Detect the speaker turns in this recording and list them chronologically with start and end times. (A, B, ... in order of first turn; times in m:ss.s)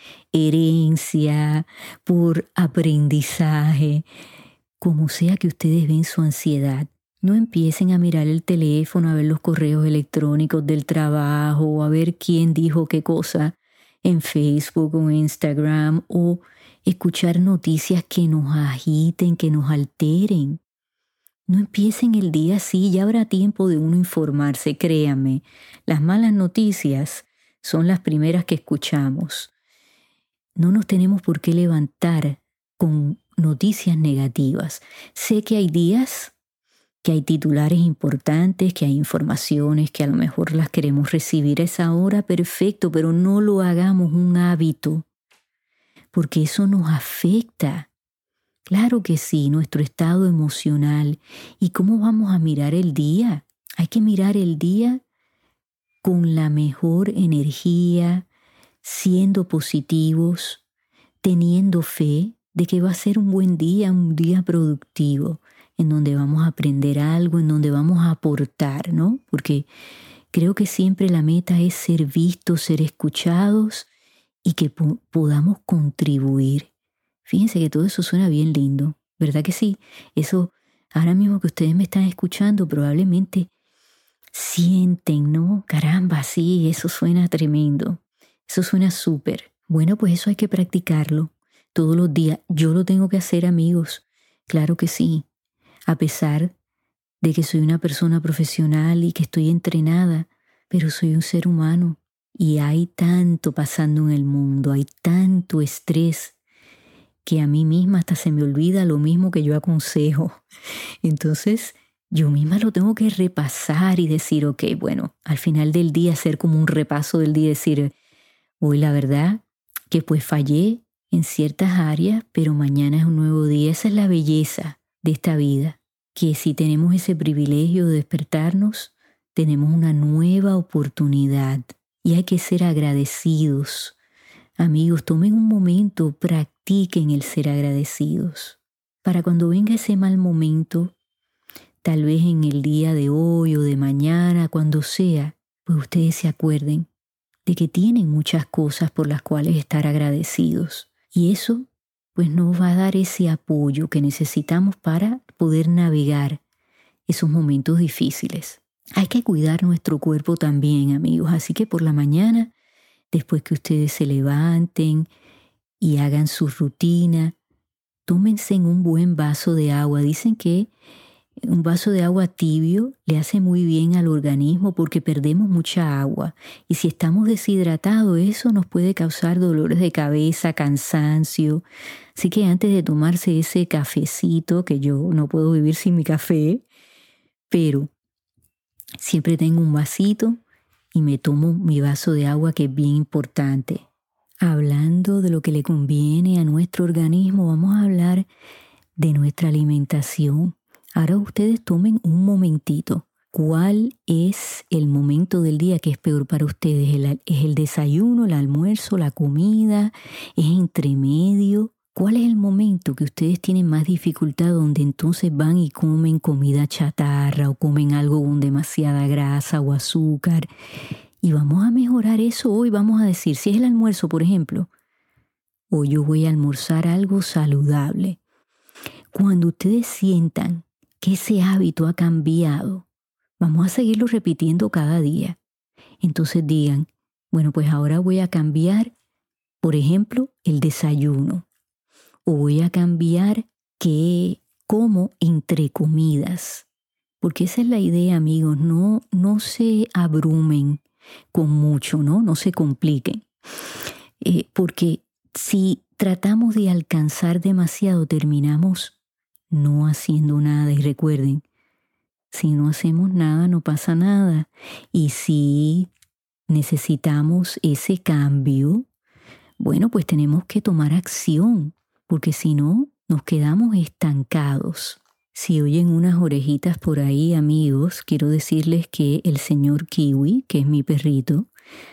0:00.3-0:04.0 A
0:04.8-0:20.6 A
0:21.5-0:29.5 A
0:30.6-0:36.3 A
0:37.0-0:45.0 A
0:46.1-0:47.9 A
0:48.7-0:55.0 A
0:56.0-0:58.3 A
0:58.8-1:00.6 A
1:01.2-1:09.7 A
1:10.3-1:13.9 A
1:14.4-1:16.7 A
1:17.2-1:23.5 A
1:24.3-1:35.3 A
1:35.9-1:36.6 A
1:37.2-1:46.4 A
1:47.2-1:50.4 A
1:51.0-1:57.9 A
1:58.6-2:14.0 A
2:14.6-2:21.0 A
2:21.8-2:26.9 A
2:27.5-2:36.4 A
2:37.1-2:42.5 A
2:43.1-2:45.1 A
2:45.8-2:47.4 A
2:48.1-2:50.7 A
2:51.5-3:01.6 A
3:02.2-3:06.6 A
3:07.5-3:07.9 A
3:09.0-3:10.4 A
3:10.9-3:13.8 A
3:14.4-3:18.3 A
3:19.0-3:40.5 A
3:41.2-3:44.7 A
3:45.7-3:48.2 A
3:49.1-3:52.9 A
3:53.4-3:55.4 A
3:56.0-3:58.9 A
3:59.6-4:01.4 A
4:02.3-4:06.7 A
4:07.2-4:10.8 A
4:11.3-4:13.2 A
4:14.2-4:19.0 A
4:19.5-4:21.4 A
4:22.3-4:25.9 A
4:26.5-4:28.9 A
4:29.6-4:41.5 A